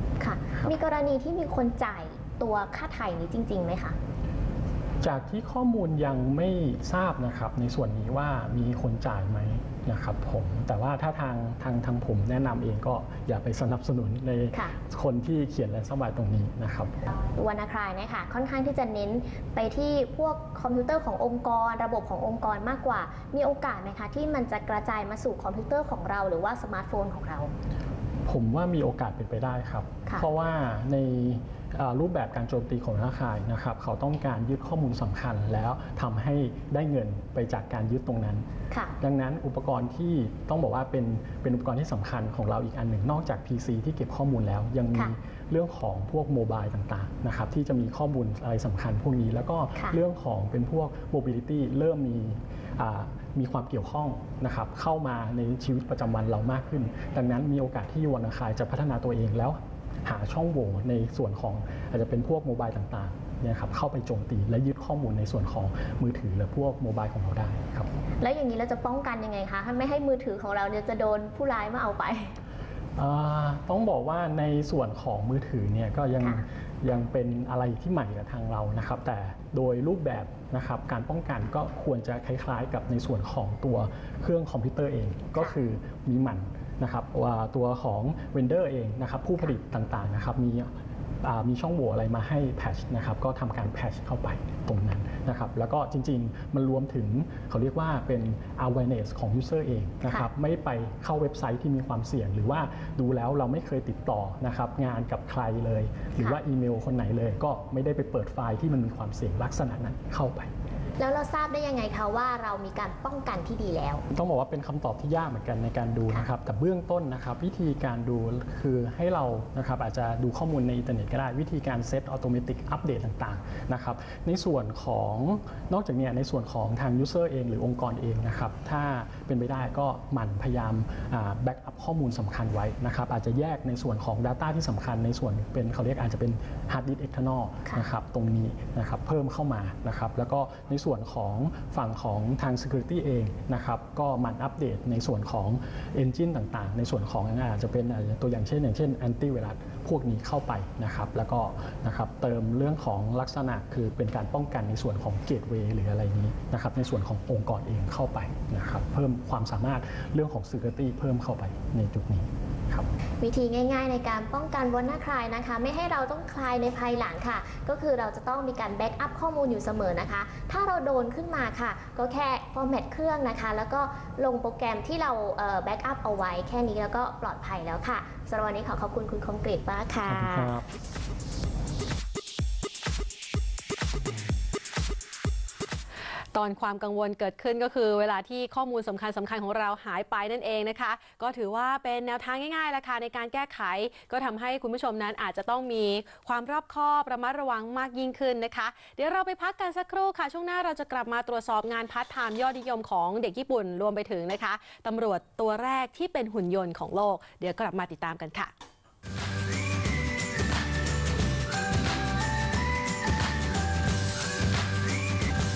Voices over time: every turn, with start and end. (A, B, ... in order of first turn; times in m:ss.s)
0:00.2-0:04.0 A
0:05.0-0:17.0 B
0:17.3-0:27.5 A
0:28.2-0:38.4 B
0:39.0-1:07.9 B
1:08.2-1:12.3 A
1:13.0-1:30.7 B
1:31.2-1:50.5 B
1:51.0-1:54.0 A
1:54.1-2:42.9 B
2:43.2-3:00.5 A
3:00.0-3:00.6 B
3:06.3-3:28.5 C